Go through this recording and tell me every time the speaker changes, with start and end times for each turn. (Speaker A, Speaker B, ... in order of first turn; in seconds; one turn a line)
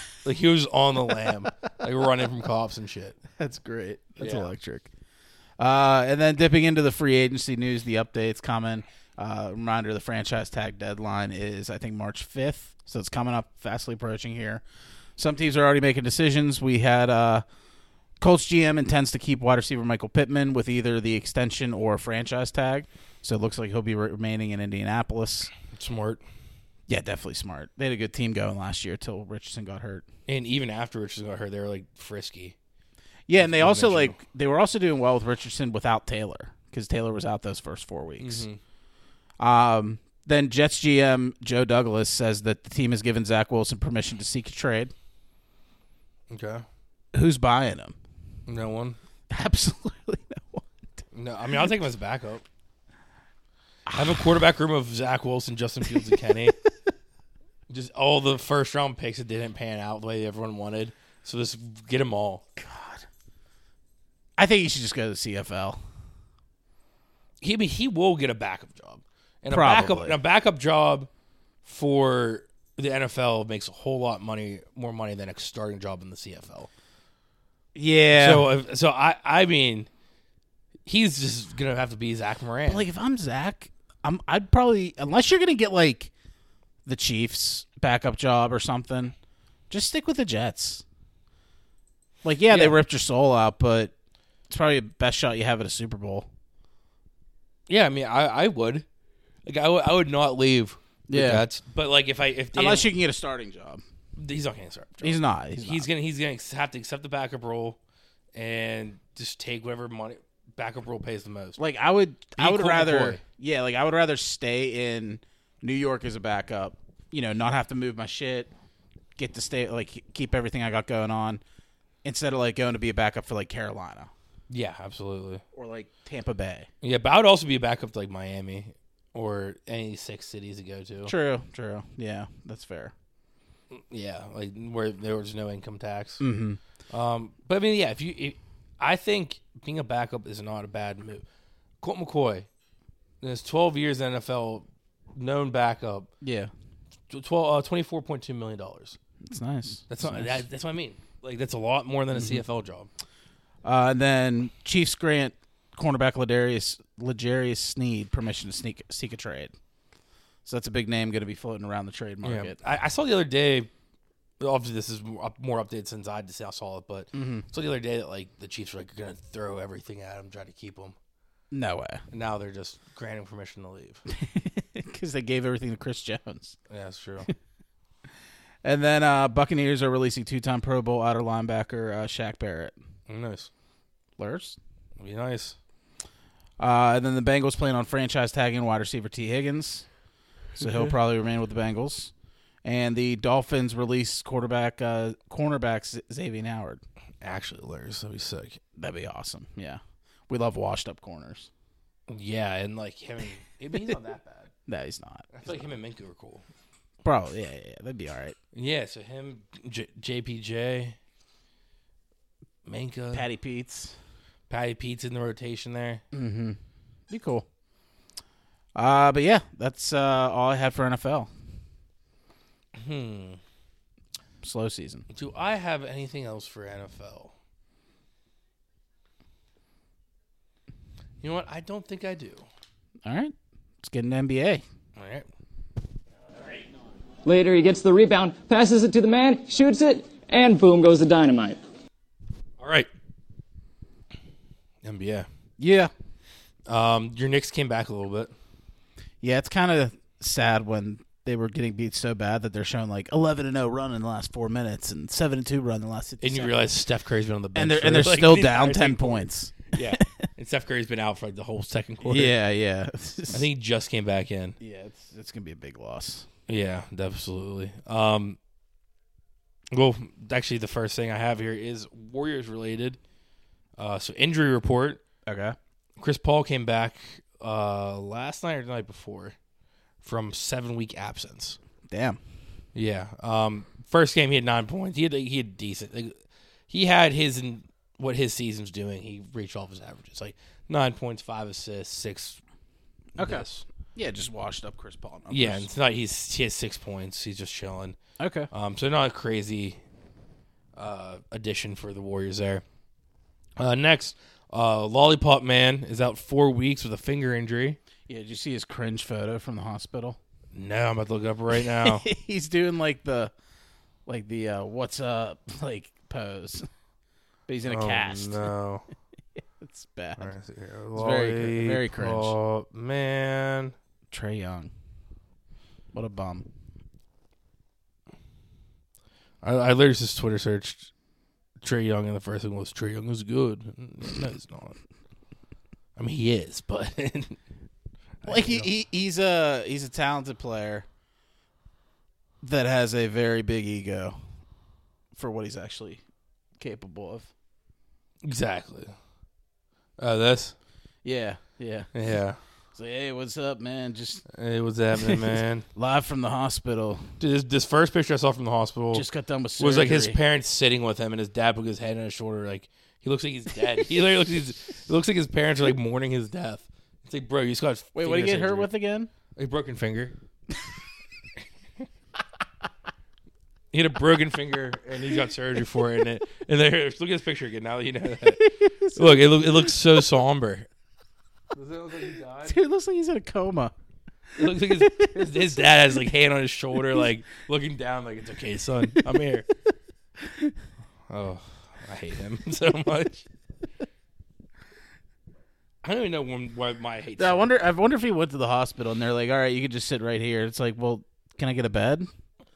Speaker A: 0.2-3.2
Speaker B: 3.4-4.9
Speaker A: 4.2-4.5
Speaker B: 5.6-14.6
Speaker B: 15.2-17.4
Speaker B: 18.2-25.5
Speaker A: 25.7-26.2
Speaker B: 26.9-30.0
Speaker A: 30.3-32.5
Speaker B: 33.3-38.4
Speaker A: 33.4-34.2
Speaker A: 38.2-38.6
Speaker B: 39.4-44.9
Speaker A: 46.3-46.6
Speaker B: 47.1-48.0
Speaker A: 48.5-49.0
Speaker B: 49.3-50.7
Speaker A: 51.1-52.4
Speaker B: 53.9-54.3
Speaker A: 53.9-56.5
Speaker B: 55.9-56.4
Speaker A: 57.7-62.4
Speaker B: 62.6-63.0
Speaker B: 64.4-65.8
Speaker A: 67.4-71.1
Speaker B: 69.5-70.2
Speaker A: 71.6-76.7
Speaker B: 77.7-78.5
Speaker A: 78.1-79.9
Speaker A: 80.8-82.8
Speaker B: 82.7-86.1
Speaker B: 86.8-89.1
Speaker B: 89.7-90.8
Speaker B: 92.2-93.9
Speaker A: 92.5-92.8
Speaker B: 94.5-96.3
Speaker A: 97.7-98.8
Speaker A: 99.5-102.9
Speaker B: 101.1-101.4
Speaker B: 102.5-103.8
Speaker A: 104.2-107.8
Speaker B: 105.0-105.9
Speaker A: 108.3-111.6
Speaker B: 111.6-118.5
Speaker A: 112.4-113.2
Speaker B: 119.2-121.4
Speaker B: 122.0-124.1
Speaker A: 124.5-125.4
Speaker B: 125.5-126.7
Speaker A: 126.8-131.1
Speaker B: 131.1-132.9
Speaker A: 133.7-136.2
Speaker B: 136.2-136.6
Speaker A: 136.9-141.2
Speaker A: 141.8-142.5
Speaker A: 143.2-146.1
Speaker B: 146.2-146.5
Speaker A: 147.1-149.0
Speaker B: 149.2-150.4
Speaker A: 149.9-152.9
Speaker B: 152.1-152.4
Speaker B: 153.6-159.5
Speaker B: 160.4-162.6
Speaker A: 162.2-163.7
Speaker A: 164.4-170.9
Speaker B: 167.1-167.4
Speaker B: 171.5-172.0
Speaker A: 172.1-174.0
Speaker B: 174.1-176.6
Speaker A: 176.7-177.3
Speaker B: 178.6-182.7
Speaker A: 183.1-183.5
Speaker B: 184.2-184.6
Speaker A: 185.0-185.6
Speaker B: 186.6-189.8
Speaker B: 190.6-192.1
Speaker A: 190.6-190.9
Speaker B: 192.6-196.8
Speaker A: 197.2-198.6
Speaker B: 198.8-201.5
Speaker A: 202.1-204.5
Speaker B: 204.7-205.7
Speaker A: 205.3-206.4
Speaker B: 207.0-208.3
Speaker A: 208.5-210.9
Speaker A: 212.7-213.2
Speaker B: 213.1-213.9
Speaker A: 214.5-216.0
Speaker B: 216.1-217.4
Speaker B: 218.7-221.3
Speaker A: 222.7-223.4
Speaker B: 224.4-225.1
Speaker A: 225.1-227.3
Speaker A: 231.2-232.5
Speaker B: 233.0-234.6
Speaker A: 235.0-235.3
Speaker C: 237.2-241.6
Speaker A: 242.6-242.9
Speaker A: 244.8-245.3
Speaker B: 245.6-245.9
Speaker A: 246.7-248.3
Speaker B: 249.2-256.6
Speaker A: 256.2-262.3
Speaker B: 257.5-260.1
Speaker B: 262.0-263.5
Speaker A: 263.3-264.6
Speaker B: 264.6-266.3
Speaker A: 266.5-268.4
Speaker A: 269.7-273.0
Speaker A: 273.8-275.0
Speaker B: 275.2-275.6
Speaker A: 276.0-279.4
Speaker A: 280.0-281.6
Speaker B: 281.9-282.2
Speaker A: 282.7-286.2
Speaker A: 286.7-292.4
Speaker B: 293.2-295.7
Speaker A: 293.2-293.6
Speaker A: 295.3-298.0
Speaker B: 298.2-298.5
Speaker A: 298.5-299.8
Speaker A: 300.8-302.6
Speaker A: 303.6-307.8
Speaker B: 308.1-310.2
Speaker A: 310.5-312.1
Speaker B: 311.6-313.3
Speaker B: 314.1-316.7
Speaker B: 317.5-318.5
Speaker A: 317.6-318.9
Speaker B: 319.6-320.3
Speaker A: 320.2-323.7
Speaker B: 320.9-322.4
Speaker B: 324.1-324.7
Speaker B: 325.9-326.5
Speaker A: 329.4-330.9
Speaker A: 331.6-334.8
Speaker A: 335.9-337.4
Speaker A: 338.2-338.7
Speaker B: 338.2-340.9
Speaker B: 342.4-344.2
Speaker B: 345.1-346.0
Speaker B: 346.6-347.3
Speaker A: 348.2-348.9
Speaker A: 350.0-350.5
Speaker B: 351.0-351.9
Speaker A: 351.9-352.4
Speaker B: 352.7-354.2
Speaker A: 354.3-355.6
Speaker B: 355.1-357.1
Speaker A: 357.2-359.1
Speaker B: 358.9-360.2
Speaker A: 359.6-368.7
Speaker B: 367.9-369.1
Speaker A: 369.4-370.1
Speaker A: 373.7-380.7
Speaker B: 378.4-379.8
Speaker A: 381.5-382.6
Speaker B: 382.4-383.7
Speaker A: 384.3-389.5
Speaker B: 384.6-385.4
Speaker B: 390.2-390.5
Speaker A: 391.1-393.2
Speaker A: 395.8-397.5
Speaker B: 397.2-402.1